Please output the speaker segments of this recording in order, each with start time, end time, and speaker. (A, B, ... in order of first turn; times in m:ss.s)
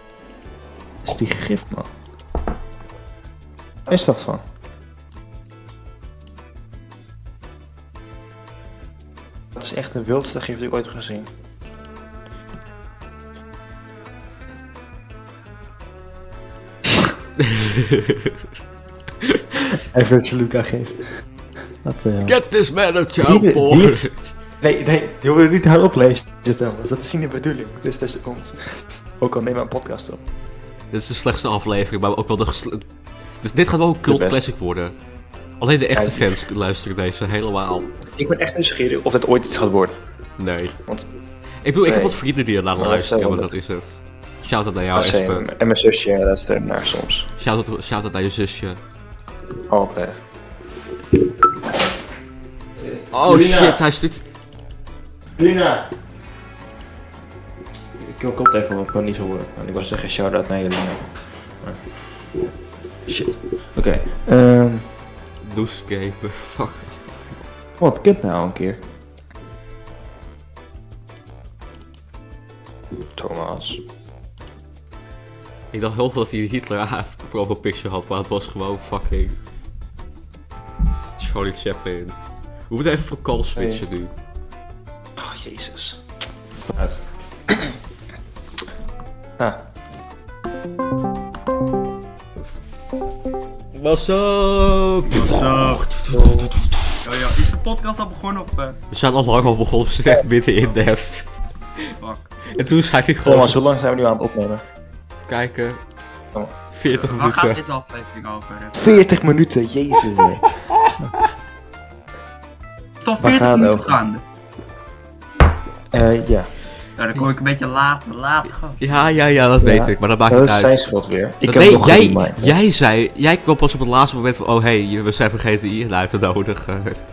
0:01.0-0:01.9 A
0:03.9-0:04.4 A
0:09.5-0:11.3 A
0:17.4-0:18.4 B
0:19.9-0:21.1 A
0:21.8-0:22.4 A
0:22.2-0:24.3 B
0:23.2-0:24.0 A
0:24.6-0:30.2 A
0:30.9-0:32.9 B
0:33.4-0:34.9 B
0:34.1-0:34.4 A
0:35.6-0:37.9 B
0:35.9-0:36.4 A
0:38.1-0:40.0 A
0:40.4-0:40.8 B
0:40.8-0:41.1 A
0:41.6-0:45.5 B
0:41.8-0:42.2 A
0:42.8-0:43.6 A
0:44.9-0:47.3 A
0:47.4-0:48.8 B
0:49.7-0:50.2 A
0:52.8-0:53.8 A
0:53.1-0:54.2 B
0:55.4-0:55.9 A
0:58.0-1:02.0 A
1:03.1-1:04.9 A
1:05.4-1:07.4 B
1:07.8-1:08.8 A
1:13.1-1:13.8 A
1:15.7-1:19.4 B
1:21.2-1:22.2 B
1:22.7-1:24.1 B
1:23.6-1:23.8 A
1:25.2-1:26.0 A
1:26.7-1:27.8 A
1:33.7-1:36.8 B
1:35.1-1:35.9 C
1:36.1-1:36.5 A
1:37.0-1:38.8 C
1:38.9-1:41.9 B
1:42.0-1:42.3 C
1:42.5-1:43.6 B
1:43.2-1:44.6 A
1:45.2-1:45.8 B
1:46.3-1:47.1 A
1:46.7-1:47.6 B
1:47.1-1:49.0 C
1:48.8-1:51.1 A
1:53.0-1:54.2 C
1:53.2-1:54.0 A
1:55.9-1:56.5 A
1:57.0-1:59.0 C
1:58.8-2:00.8 B
1:59.6-2:02.5 A
2:01.4-2:07.0 B